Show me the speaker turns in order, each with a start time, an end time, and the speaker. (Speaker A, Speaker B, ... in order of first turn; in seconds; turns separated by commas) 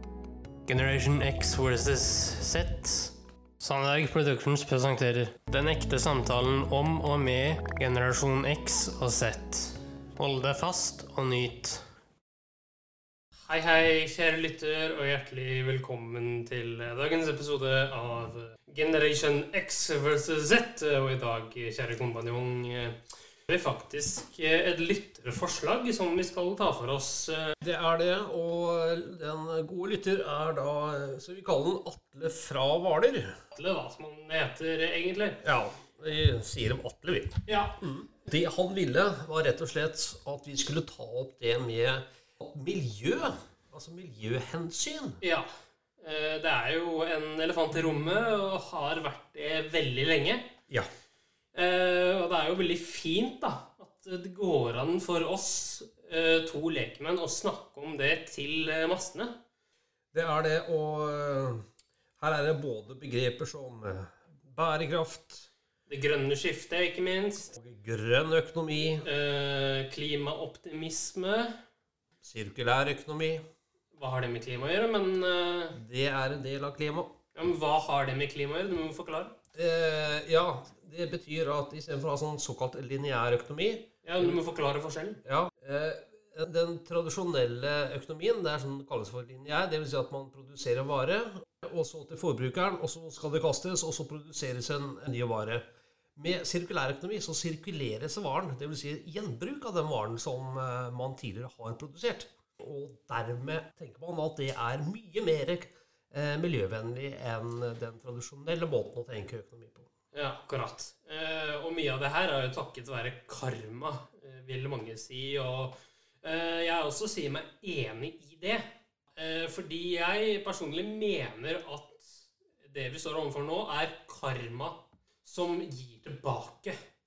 Speaker A: 0.7-11.8, Speaker A: 13.5-27.5, Speaker B: 27.6-33.3, Speaker A: 33.5-35.4, Speaker B: 35.4-45.2, Speaker A: 37.5-37.8, Speaker A: 45.2-45.5, Speaker A: 46.0-50.5, Speaker A: 51.5-59.3, Speaker B: 60.1-61.6, Speaker B: 62.2-65.5, Speaker A: 65.9-67.5, Speaker B: 67.5-69.1, Speaker A: 69.0-71.5, Speaker B: 72.2-73.4, Speaker A: 73.9-75.8, Speaker B: 75.7-77.1, Speaker A: 77.3-79.3, Speaker B: 79.5-84.4, Speaker A: 84.0-85.2, Speaker B: 85.2-95.6, Speaker B: 96.2-109.9, Speaker A: 110.1-118.6, Speaker A: 119.2-126.7